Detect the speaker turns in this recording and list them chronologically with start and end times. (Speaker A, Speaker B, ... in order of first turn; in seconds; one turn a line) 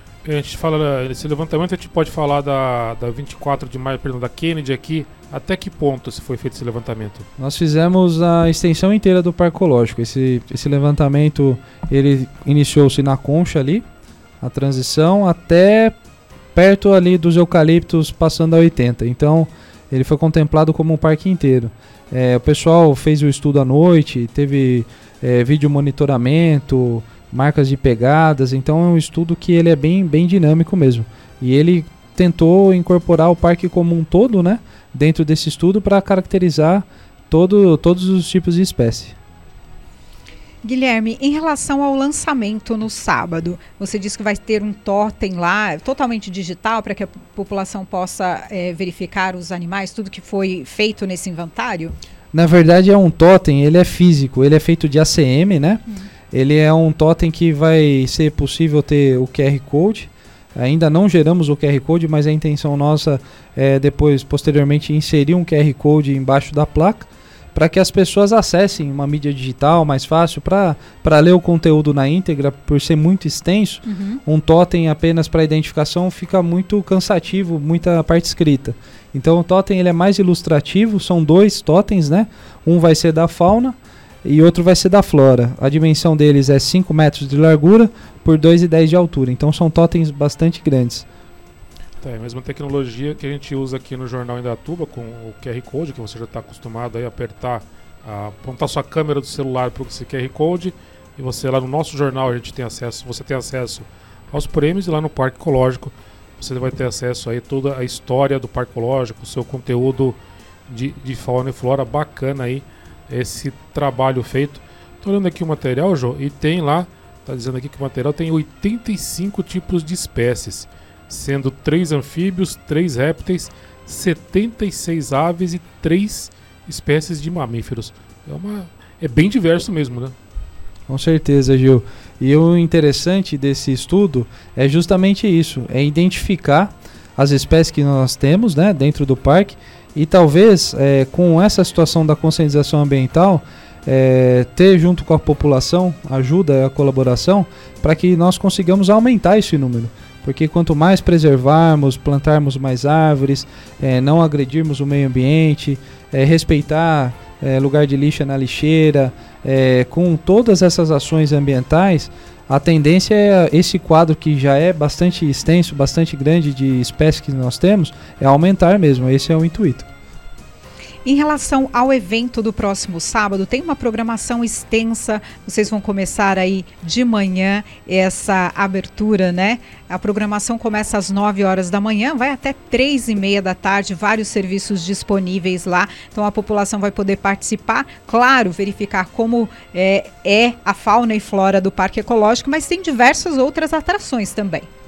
Speaker A: 0.2-7.2
Speaker B: 7.4-13.8
Speaker B: 14.4-15.9
Speaker B: 16.5-39.2
Speaker C: 40.6-51.9
Speaker B: 52.3-91.0
Speaker C: 73.8-74.2
Speaker A: 92.0-130.1
Speaker B: 130.9-169.9
Speaker C: 171.0-194.7